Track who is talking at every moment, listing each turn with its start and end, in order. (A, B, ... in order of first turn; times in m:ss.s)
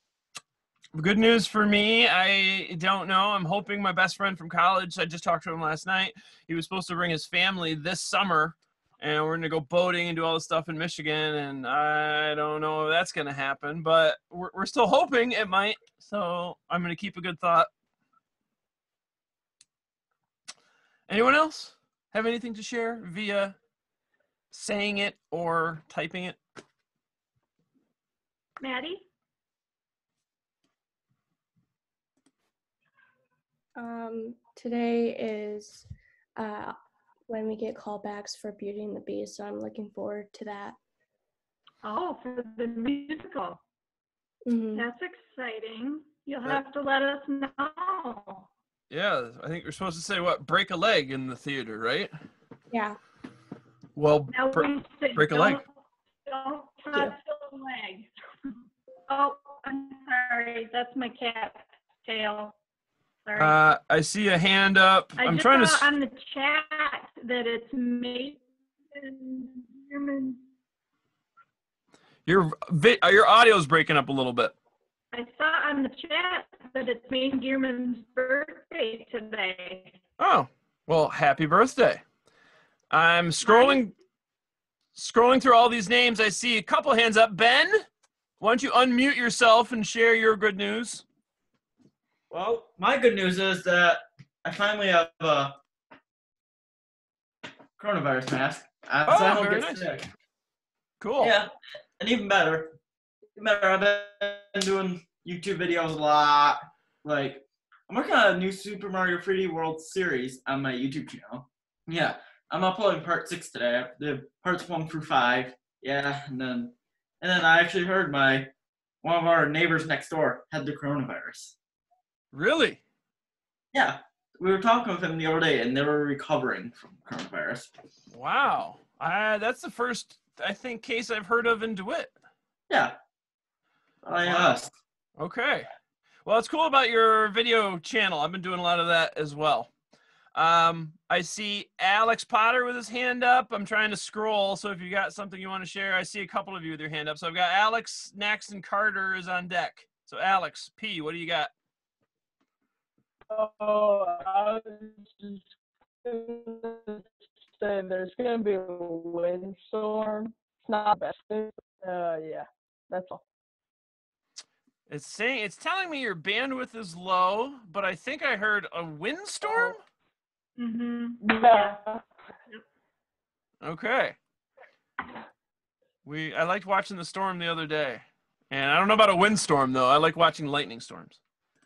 0:01.0-0:17.7 A
0:21.1-0:23.6 A
0:24.5-0:26.4 A
0:28.6-0:29.1 B
0:33.8-0:35.9 C
0:36.4-0:36.8 C
0:37.3-0:40.8 C
0:41.8-0:43.6 B
0:44.5-0:44.9 C
0:44.7-0:48.5 B
0:48.9-0:52.1 A
0:54.0-0:55.6 A
0:54.3-0:55.7 B
0:56.2-0:58.1 B
0:59.1-1:02.6 B
1:03.2-1:03.6 B
1:03.4-1:05.9 A
1:05.2-1:10.4 B
1:12.3-1:14.5 A
1:15.1-1:20.0 B
1:20.2-1:22.0 A
1:22.9-1:23.9 A
1:23.4-1:23.8 B
1:25.0-1:27.8 A
1:28.4-1:31.0 A
1:32.3-1:35.6 D
1:37.8-1:40.1 D
1:39.1-1:39.9 A
1:41.0-1:41.4 A
1:41.2-1:42.8 D
1:43.4-1:58.5 D
1:59.0-2:01.6 D
2:02.3-2:02.8 A
2:03.7-2:07.7 D
2:08.1-2:12.1 A
2:12.7-2:13.0 D
2:14.0-2:14.7 D
2:14.2-2:14.6 A
2:15.2-2:15.7 A
2:16.2-2:19.7 A
2:20.4-2:31.5 A
2:33.3-2:35.5 E
2:36.0-2:43.2 E
2:44.9-2:49.8 A
2:50.6-2:51.8 B
2:51.2-2:52.0 E
2:53.6-2:54.2 A
2:56.0-3:01.2 A